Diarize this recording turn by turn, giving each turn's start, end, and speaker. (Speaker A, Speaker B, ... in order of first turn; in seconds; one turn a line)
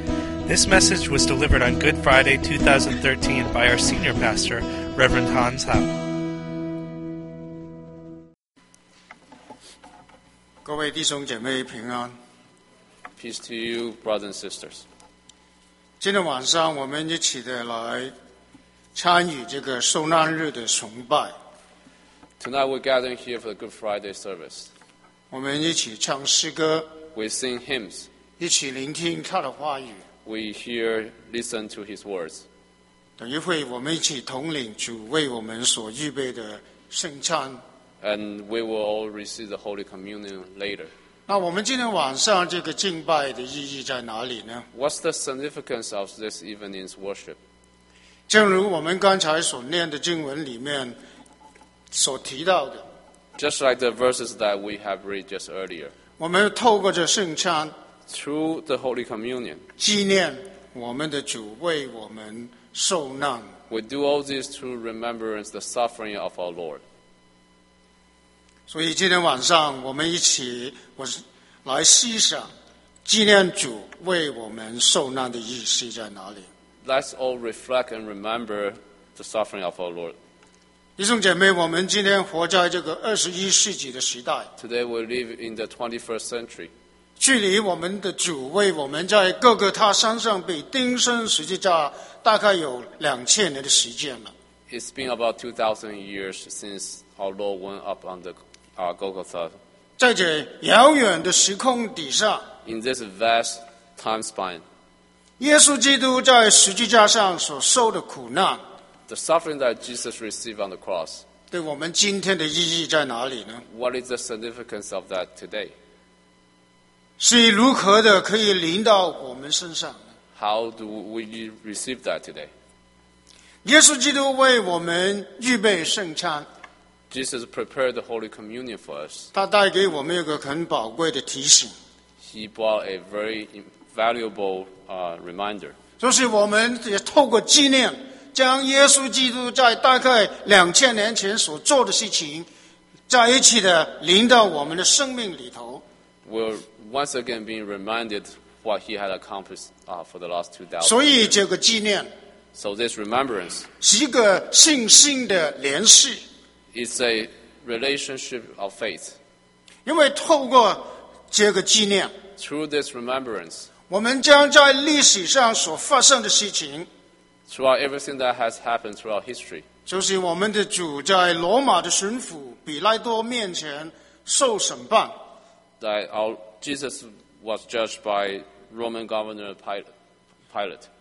Speaker A: 0.5-5.9
Speaker B: 10.6-12.2
Speaker C: 13.2-14.8
Speaker B: 16.0-18.1
Speaker B: 18.9-21.3
Speaker C: 22.4-24.7
Speaker B: 25.3-26.9
Speaker C: 27.1-28.1
Speaker B: 28.4-30.0
Speaker C: 30.2-32.4
Speaker B: 33.2-37.6
Speaker C: 38.0-40.9
Speaker B: 41.3-44.6
Speaker C: 44.7-47.4
Speaker B: 48.3-51.0
Speaker B: 51.9-52.8
Speaker C: 53.4-55.9
Speaker B: 56.2-57.7
Speaker C: 58.1-59.6
Speaker B: 59.8-63.5
Speaker C: 63.7-66.8
Speaker B: 68.7-72.5
Speaker B: 73.0-76.5
Speaker C: 76.8-80.2
Speaker B: 81.0-84.5
Speaker C: 84.6-86.7
Speaker B: 87.2-94.3
Speaker C: 94.7-99.5
Speaker B: 100.0-102.5
Speaker C: 102.6-104.6
Speaker B: 105.4-108.6
Speaker C: 109.1-111.2
Speaker B: 111.5-113.6
Speaker C: 113.7-115.7
Speaker B: 117.2-120.0
Speaker C: 120.3-122.5
Speaker B: 123.6-126.5
Speaker C: 127.1-129.3
Speaker B: 129.3-131.7
Speaker C: 132.2-135.8
Speaker B: 136.0-142.5
Speaker B: 143.1-145.8
Speaker C: 146.2-151.3
Speaker B: 150.8-152.1
Speaker C: 152.5-153.7
Speaker B: 153.8-156.2
Speaker C: 156.7-159.2
Speaker B: 159.8-162.1
Speaker C: 162.4-163.7
Speaker B: 163.9-166.9
Speaker C: 167.5-169.6
Speaker B: 169.9-175.1
Speaker C: 175.8-179.9
Speaker C: 180.5-180.9